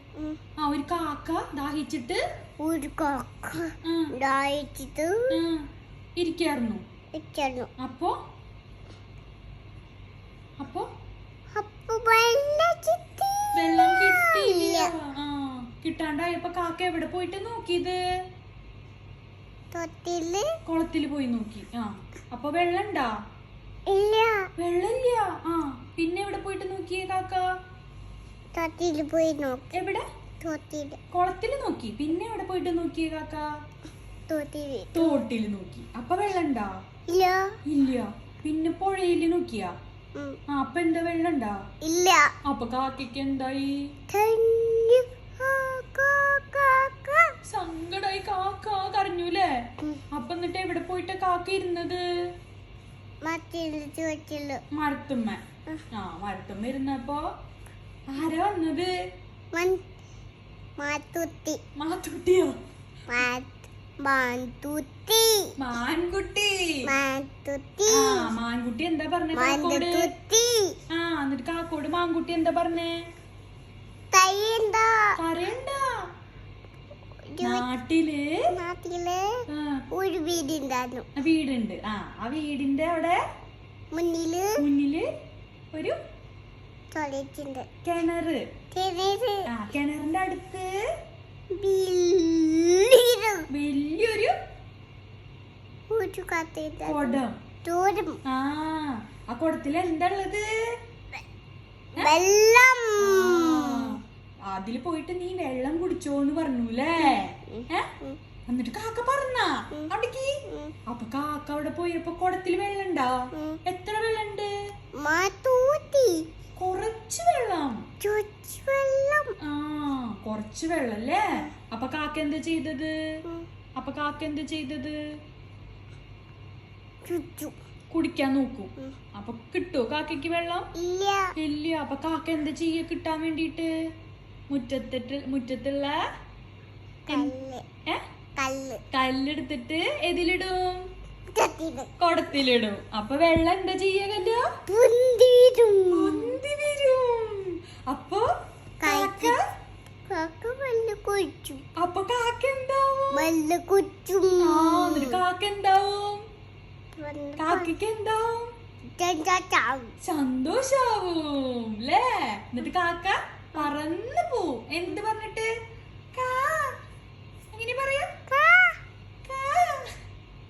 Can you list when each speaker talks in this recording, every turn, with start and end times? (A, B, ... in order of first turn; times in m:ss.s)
0:00.6-0:02.2 A
0:02.6-0:05.4 B
0:03.8-0:04.1 A
0:05.3-0:05.6 A
0:06.2-0:06.8 A
0:07.1-0:07.7 B
0:07.8-0:08.1 A
0:10.6-0:10.9 A
0:11.5-0:14.9 B
0:13.6-0:18.0 A
0:19.7-0:20.5 B
0:20.6-0:23.1 A
0:23.9-0:24.5 B
0:24.6-0:27.4 A
0:28.5-0:29.7 B
0:29.7-0:30.0 A
0:30.4-0:31.0 B
0:31.1-0:33.5 A
0:34.3-0:35.1 B
0:34.9-0:36.7 A
0:37.1-0:37.6 B
0:37.6-0:39.7 A
0:40.5-0:41.6 A
0:41.8-0:42.3 B
0:42.4-0:43.7 A
0:44.1-0:47.3 B
0:47.4-0:49.5 A
0:50.1-0:52.0 A
0:53.2-0:54.6 B
0:54.7-0:55.4 A
0:55.9-0:57.2 A
0:58.1-0:58.9 A
0:59.5-0:59.8 B
1:00.8-1:01.6 B
1:01.8-1:02.5 A
1:03.1-1:05.5 B
1:05.6-1:06.8 A
1:06.8-1:08.3 B
1:07.9-1:10.1 A
1:09.3-1:10.8 B
1:10.9-1:13.0 A
1:14.1-1:15.1 B
1:15.2-1:15.9 A
1:17.3-1:17.7 B
1:17.4-1:18.4 A
1:18.5-1:19.3 B
1:19.5-1:19.8 A
1:19.9-1:21.1 B
1:21.2-1:23.2 A
1:23.9-1:24.6 B
1:24.6-1:25.1 A
1:25.7-1:26.0 A
1:26.9-1:27.7 B
1:27.8-1:28.4 A
1:28.7-1:29.5 B
1:29.5-1:30.7 A
1:31.5-1:33.4 B
1:33.5-1:34.4 A
1:35.9-1:38.2 B
1:36.9-1:37.4 A
1:38.2-1:40.4 A
1:42.0-1:44.0 B
1:43.0-1:47.9 A
1:47.0-1:48.2 B
1:48.5-1:54.5 A
1:50.4-1:50.7 B
1:53.3-1:53.6 B
1:55.0-1:56.2 B
1:56.6-1:57.8 A
1:58.0-1:59.4 B
1:59.4-2:02.9 A
2:03.8-2:05.0 A
2:07.0-2:07.5 B
2:07.9-2:10.7 A
2:10.8-2:11.3 B
2:11.4-2:13.7 A
2:14.5-2:16.0 A
2:17.1-2:17.6 B
2:18.4-2:18.8 B
2:18.9-2:20.9 A
2:21.3-2:21.9 B
2:22.0-2:24.4 A
2:24.7-2:26.4 B
2:25.9-2:28.2 A
2:28.8-2:29.4 B
2:28.8-2:29.4 A
2:30.1-2:31.6 B
2:31.8-2:33.3 A
2:33.1-2:35.2 B
2:34.4-2:36.2 A
2:37.0-2:37.7 B
2:37.4-2:38.5 A
2:39.0-2:39.9 B
2:40.0-2:45.5 A
2:46.1-2:46.8 A
2:47.5-2:48.1 A
2:48.3-2:48.8 B
2:49.2-2:49.9 A